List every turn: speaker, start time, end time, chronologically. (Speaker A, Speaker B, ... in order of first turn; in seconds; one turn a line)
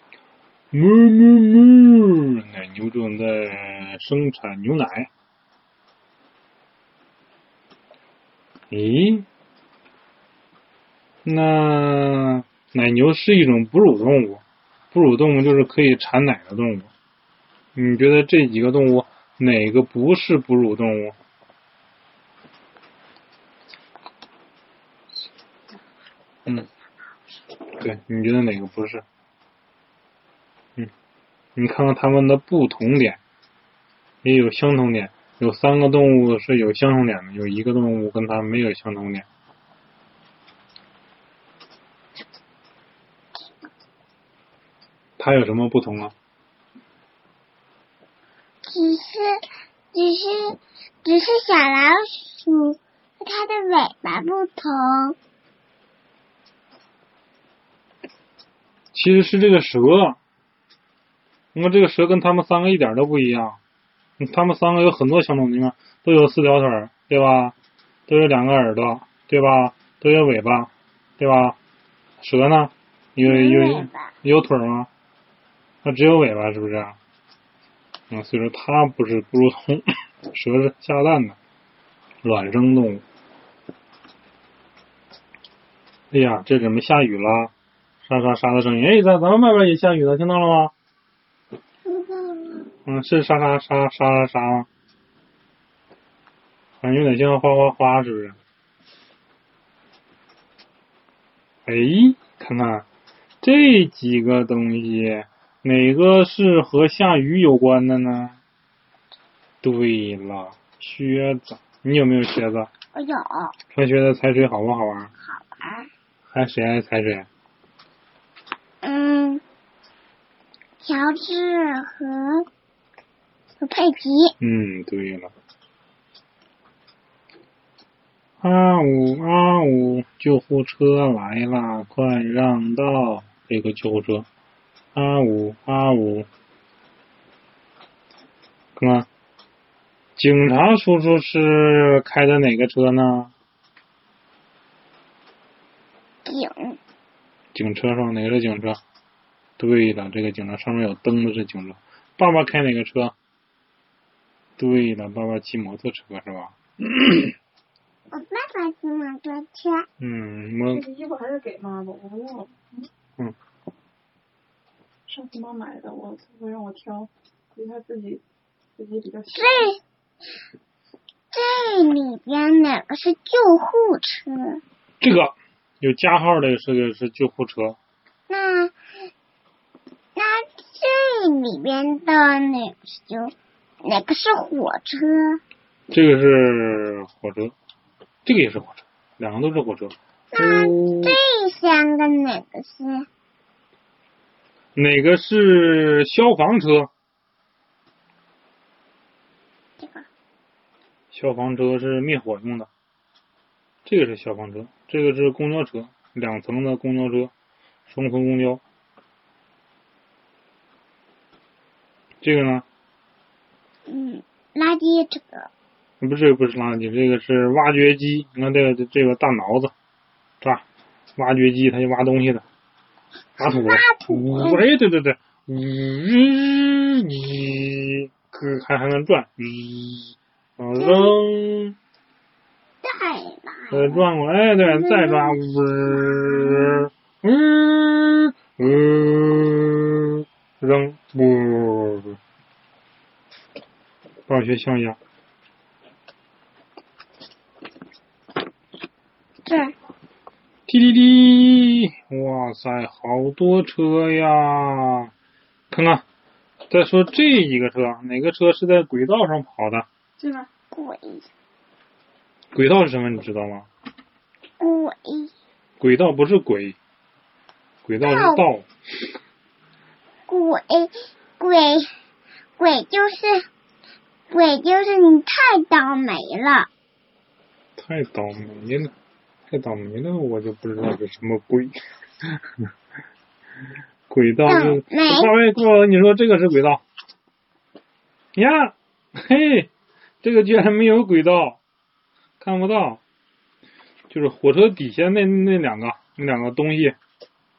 Speaker A: 0.7-5.1
Speaker A: 8.7-9.2
Speaker A: 11.2-16.9
Speaker A: 17.7-21.1
Speaker A: 27.8-29.0
Speaker A: 31.6-33.2
Speaker A: 34.2-39.2
Speaker A: 45.2-46.1
Speaker B: 48.6-49.4
Speaker B: 49.9-55.1
Speaker A: 58.9-60.2
Speaker A: 61.5-63.6
Speaker A: 64.2-67.5
Speaker A: 68.1-71.5
Speaker A: 72.2-74.9
Speaker B: 73.2-74.1
Speaker A: 75.8-77.0
Speaker A: 78.1-81.4
Speaker A: 82.2-83.0
Speaker A: 86.1-87.5
Speaker A: 88.0-90.7
Speaker B: 91.8-92.7
Speaker A: 92.8-94.7
Speaker A: 96.8-98.4
Speaker A: 101.7-102.8
Speaker A: 103.4-108.4
Speaker A: 109.6-112.7
Speaker B: 112.9-113.5
Speaker A: 113.7-115.1
Speaker B: 115.2-115.9
Speaker A: 116.3-117.3
Speaker B: 118.8-119.4
Speaker B: 120.8-122.5
Speaker B: 123.6-124.3
Speaker A: 124.4-125.3
Speaker A: 128.4-134.3
Speaker A: 134.9-136.3
Speaker A: 138.8-139.1
Speaker A: 140.2-143.3
Speaker B: 146.2-146.8
Speaker A: 147.5-148.8
Speaker A: 149.6-153.1
Speaker A: 154.6-157.3
Speaker B: 158.1-159.9
Speaker A: 160.0-160.8
Speaker C: 160.7-162.7
Speaker C: 165.1-168.2
Speaker C: 168.8-169.8
Speaker B: 169.3-169.8
Speaker B: 171.3-174.6
Speaker A: 175.0-177.8
Speaker B: 178.3-178.7
Speaker B: 180.2-185.4
Speaker A: 185.9-187.5
Speaker A: 188.2-191.2
Speaker B: 190.3-193.1
Speaker A: 194.7-196.9
Speaker B: 199.8-200.1
Speaker A: 201.1-202.7
Speaker A: 203.8-207.3
Speaker A: 207.9-208.6
Speaker A: 212.2-212.6
Speaker B: 213.9-215.5
Speaker A: 216.0-219.7
Speaker A: 221.2-222.4
Speaker B: 223.4-224.6
Speaker A: 223.4-231.8
Speaker B: 230.8-231.1
Speaker B: 232.8-234.0
Speaker A: 233.7-242.2
Speaker B: 234.6-235.4
Speaker B: 236.0-236.8
Speaker A: 244.3-245.0
Speaker B: 249.4-249.7
Speaker A: 250.7-255.1
Speaker A: 255.7-256.0
Speaker A: 256.7-259.9
Speaker B: 260.2-261.3
Speaker A: 262.5-263.7
Speaker B: 264.6-265.3
Speaker A: 265.8-266.8
Speaker A: 267.8-268.7
Speaker B: 268.0-268.4
Speaker B: 270.3-271.9
Speaker B: 272.6-273.5
Speaker B: 274.3-276.7
Speaker A: 277.8-278.9
Speaker A: 279.5-282.7
Speaker A: 284.1-286.8
Speaker B: 284.4-285.3
Speaker A: 288.4-289.7
Speaker A: 290.2-291.6
Speaker A: 292.4-293.0
Speaker A: 294.1-296.9